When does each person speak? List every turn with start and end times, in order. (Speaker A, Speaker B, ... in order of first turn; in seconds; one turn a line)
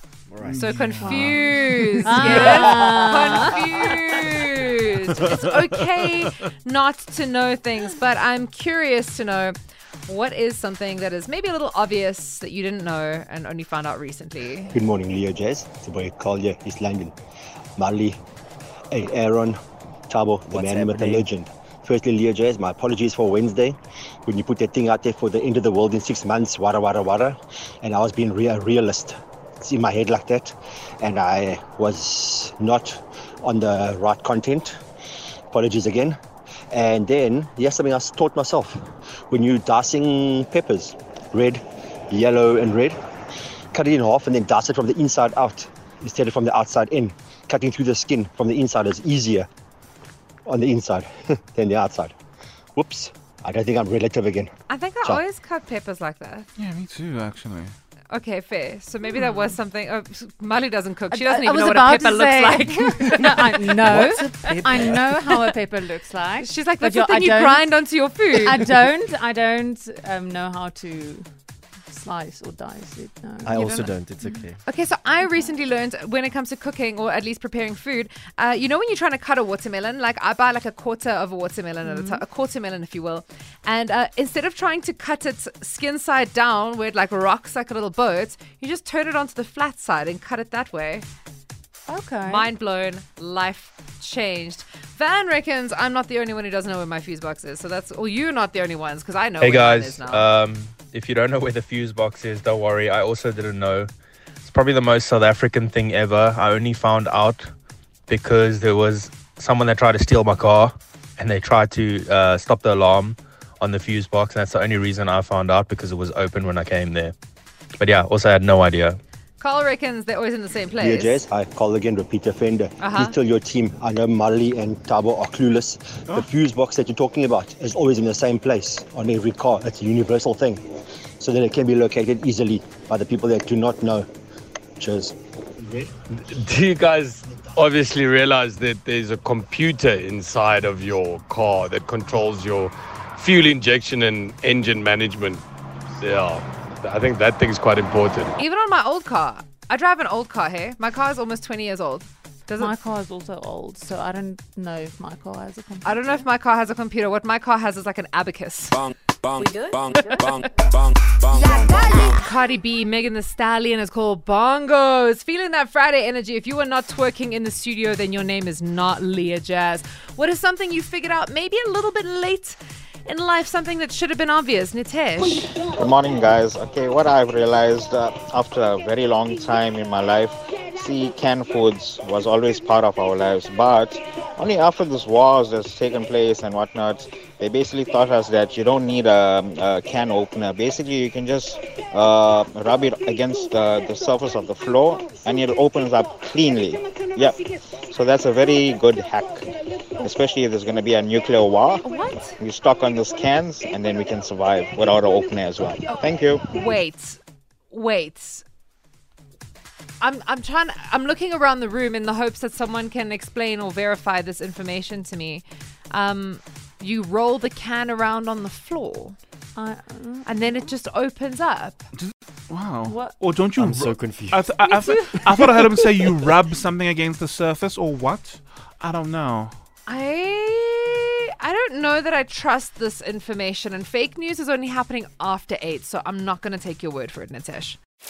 Speaker A: 0.3-0.5
Speaker B: 0.4-1.9
Speaker C: 0.5-9.6
Speaker D: 1.0-3.9
Speaker C: 10.1-14.8
Speaker E: 14.7-17.1
Speaker E: 17.8-18.2
Speaker E: 18.9-19.6
Speaker E: 20.1-34.8
Speaker A: 20.5-21.2
Speaker E: 35.5-36.2
Speaker E: 36.7-43.0
Speaker E: 43.7-49.5
Speaker E: 50.5-52.1
Speaker E: 52.8-54.5
Speaker C: 54.7-56.5
Speaker B: 56.6-57.8
Speaker C: 58.1-65.6
Speaker D: 59.1-59.5
Speaker D: 61.1-74.4
Speaker A: 63.9-65.0
Speaker C: 66.4-68.7
Speaker A: 73.5-74.6
Speaker C: 73.5-91.1
Speaker D: 75.1-75.5
Speaker D: 81.8-82.2
Speaker D: 91.9-92.5
Speaker C: 92.2-100.3
Speaker F: 99.4-103.9
Speaker F: 104.4-107.5
Speaker F: 108.1-117.1
Speaker F: 117.8-119.0
Speaker C: 119.4-121.2
Speaker E: 120.8-130.6
Speaker C: 122.8-123.1
Speaker E: 131.2-134.1
Speaker E: 134.8-135.1
Speaker G: 136.3-145.4
Speaker G: 146.0-148.3
Speaker C: 148.4-152.8
Speaker D: 152.6-156.3
Speaker C: 155.8-158.9
Speaker G: 159.4-160.4
Speaker G: 161.4-162.1
Speaker C: 161.7-175.6
Speaker H: 175.7-197.4
Speaker H: 197.9-199.5
Speaker H: 200.0-201.8
Speaker C: 201.8-202.4
Speaker H: 202.4-206.4
Speaker C: 205.9-208.4
Speaker C: 210.0-219.2
Speaker D: 219.6-220.7
Speaker C: 220.2-221.8
Speaker B: 221.9-229.6
Speaker D: 222.8-223.3
Speaker A: 223.6-224.5
Speaker D: 224.5-225.2
Speaker C: 229.9-237.8